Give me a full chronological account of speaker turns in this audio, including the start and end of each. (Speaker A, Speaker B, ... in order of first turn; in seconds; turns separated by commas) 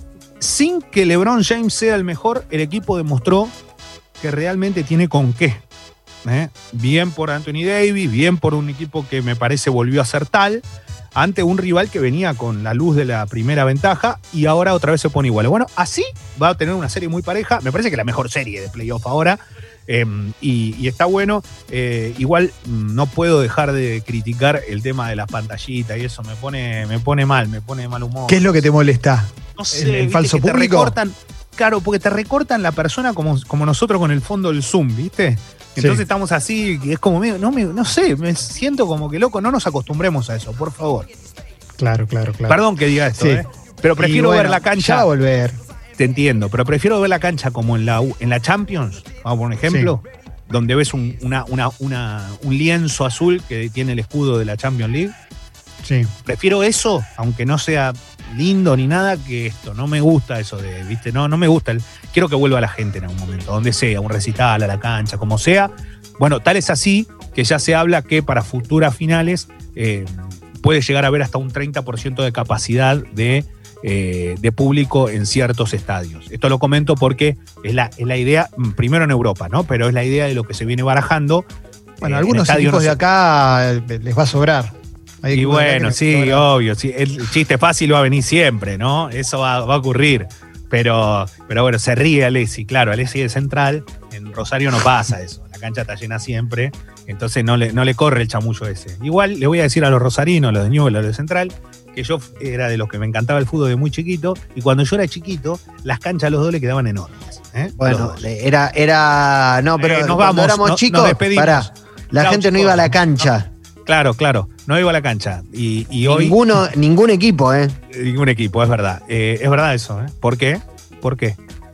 Speaker A: 0.4-3.5, Speaker A: 4.2-5.6, Speaker A: 6.2-10.6, Speaker A: 11.2-28.6, Speaker B: 28.3-31.0, Speaker A: 29.6-41.1, Speaker B: 35.8-36.0, Speaker B: 41.8-42.6, Speaker A: 42.5-45.1, Speaker B: 43.2-43.5, Speaker B: 44.0-45.6, Speaker A: 46.0-55.1, Speaker B: 49.6-50.0, Speaker B: 55.8-56.1, Speaker A: 56.2-81.5, Speaker A: 82.0-83.0, Speaker B: 82.0-86.5, Speaker A: 85.3-108.3, Speaker C: 107.8-113.5, Speaker A: 109.8-116.5, Speaker C: 116.0-117.8, Speaker A: 117.9-121.4